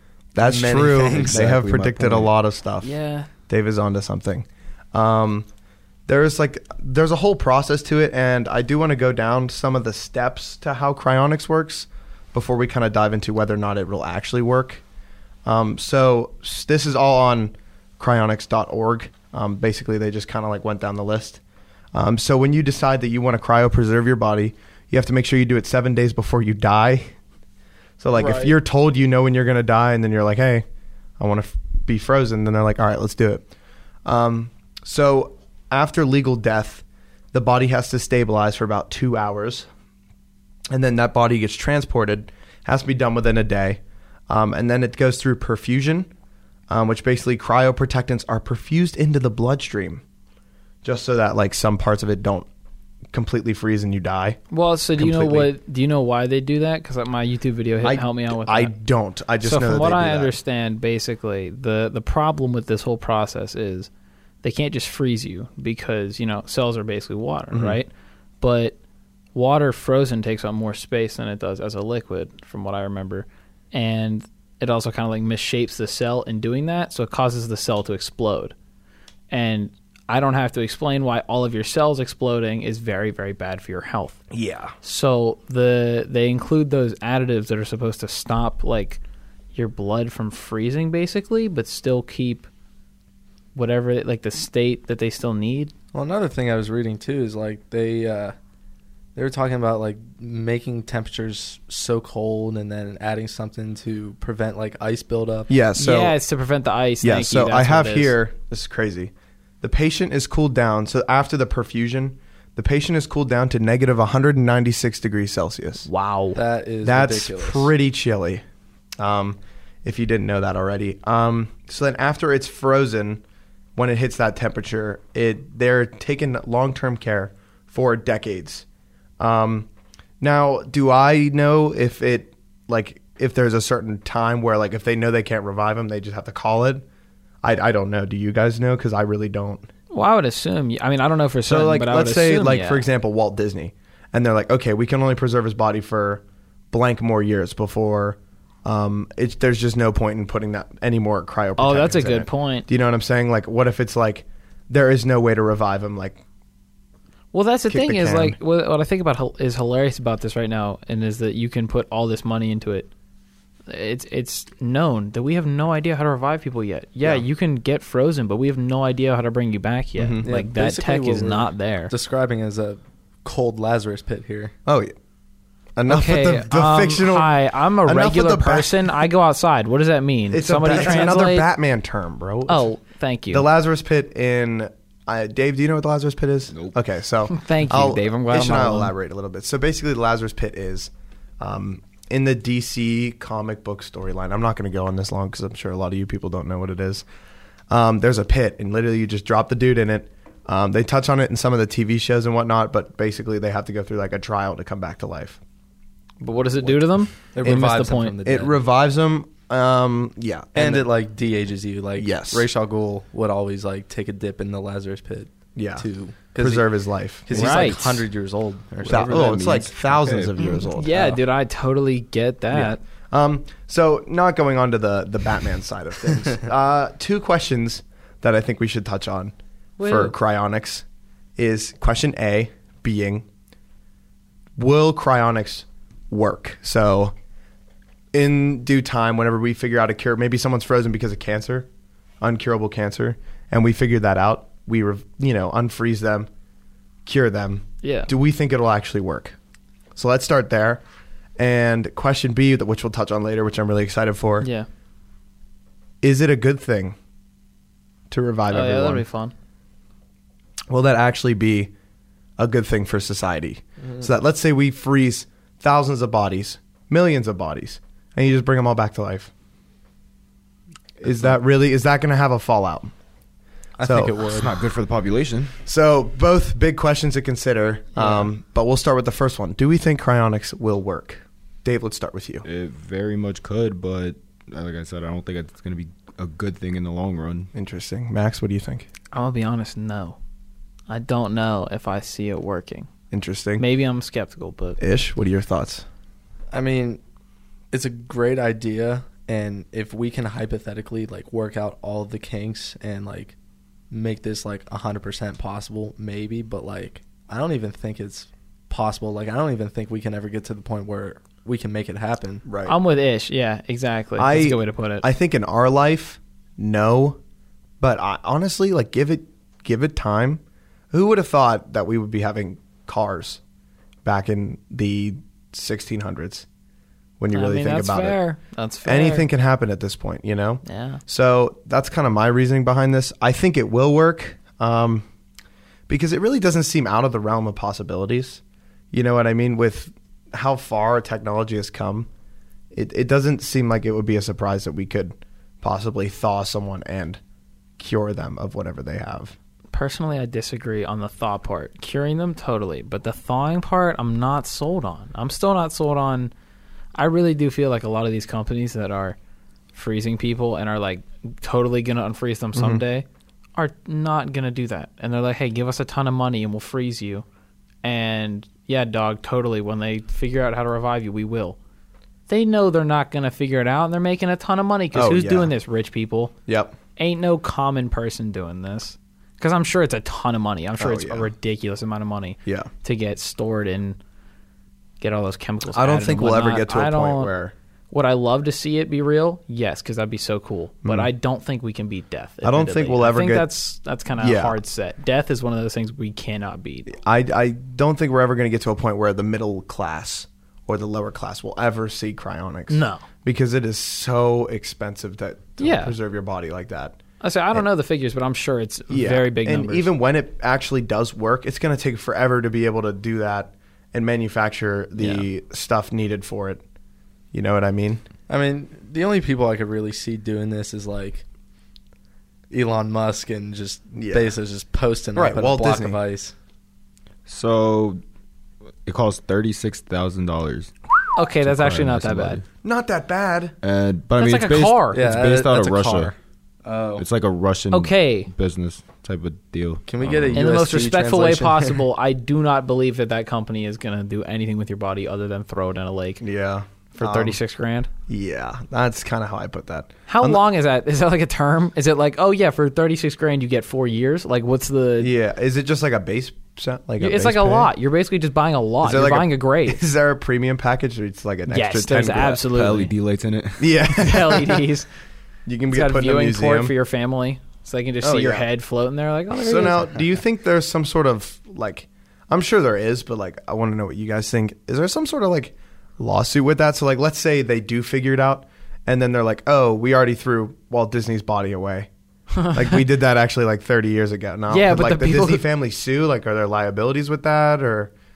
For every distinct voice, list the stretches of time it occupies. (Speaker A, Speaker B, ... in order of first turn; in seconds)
Speaker A: 0.3-2.9, 3.5-5.5, 6.1-14.8, 15.4-21.4, 21.9-27.1, 28.0-30.6, 31.2-33.5, 34.0-39.7, 40.7-46.1, 46.7-50.0, 50.8-52.5, 53.1-54.4, 55.0-55.5, 57.8-60.3, 67.5-67.8, 84.3-84.7, 105.5-106.2, 107.0-115.9, 116.8-118.4, 119.0-123.2, 123.8-128.7, 129.2-129.7, 130.2-136.8, 137.4-139.7, 141.5-156.2, 157.7-158.4, 170.0-170.3, 174.7-174.9, 175.8-178.9, 180.3-182.7, 183.3-197.1, 197.7-205.4, 208.2-210.9, 212.0-212.5, 215.6-215.8, 216.4-217.7, 218.8-221.1, 222.5-230.8, 231.4-233.3, 234.6-237.1, 238.1-241.7, 242.2-246.3, 247.1-249.4, 249.9-250.8, 251.4-254.5, 256.0-257.0, 258.1-259.1, 260.7-261.7, 262.4-269.3, 271.0-272.9, 273.8-274.1, 275.7-282.5, 287.5-288.9, 293.1-293.6, 294.8-295.9, 312.5-312.8, 314.2-317.2, 317.8-323.4, 324.1-326.5, 327.2-328.2, 328.8-335.1, 335.9-338.4, 338.9-342.1, 342.7-347.2, 347.8-349.4, 362.5-362.8, 374.9-375.5, 376.5-376.8, 380.8-381.3, 385.7-387.5, 390.8-391.1, 392.4-393.5, 394.2-394.6, 396.9-407.0, 408.9-416.6, 417.3-418.1, 423.9-424.4, 425.2-426.0, 432.6-433.6, 446.2-447.4, 448.1-450.4, 455.0-457.7, 458.8-462.5, 463.6-464.7, 465.5-466.8, 468.0-468.5, 469.3-481.9, 482.5-487.9
Speaker B: 0.4-1.4, 95.9-98.3, 99.2-105.5, 116.4-117.7, 170.2-174.5, 207.3-208.6, 210.6-216.7, 217.2-219.8, 263.8-264.1, 273.8-274.6, 296.5-297.0, 297.7-303.4, 303.9-312.4, 418.3-421.2, 422.5-426.3, 434.9-437.1, 439.9-441.8
Speaker C: 1.3-2.3, 219.9-220.3, 274.2-275.6, 282.4-287.5, 427.3-428.0, 428.9-430.7, 431.4-432.4, 433.6-436.1, 437.0-440.4, 462.4-463.7
Speaker D: 2.8-3.3, 28.1-28.6, 54.5-58.7, 59.4-63.9, 64.4-67.9, 68.4-68.8, 69.3-78.5, 79.3-84.2, 84.8-89.0, 89.5-92.5, 93.5-95.7, 105.8-108.2, 115.9-116.4, 139.9-142.8, 151.6-152.7, 157.3-162.9, 163.7-171.9, 175.9-181.5, 182.5-183.5, 187.3-188.9, 206.2-208.2, 217.3-218.1, 220.7-222.8, 229.8-230.1, 247.8-248.1, 254.4-254.7, 258.5-259.3, 278.0-278.3, 289.1-290.2, 290.9-292.9, 293.6-294.8, 312.7-315.1, 327.3-329.3, 330.7-331.0, 349.7-356.3, 356.9-359.2, 359.7-367.2, 367.8-371.6, 372.3-376.3, 377.0-384.0, 385.0-387.3, 387.9-396.9, 402.7-403.0, 405.6-405.9, 407.2-409.9, 415.0-415.3, 431.1-432.4, 434.2-435.0, 437.7-438.3, 440.4-446.2, 446.9-447.9, 450.1-455.1, 457.0-459.8, 461.5-462.9, 463.9-464.9, 465.7-470.0, 482.4-482.8, 484.5-485.4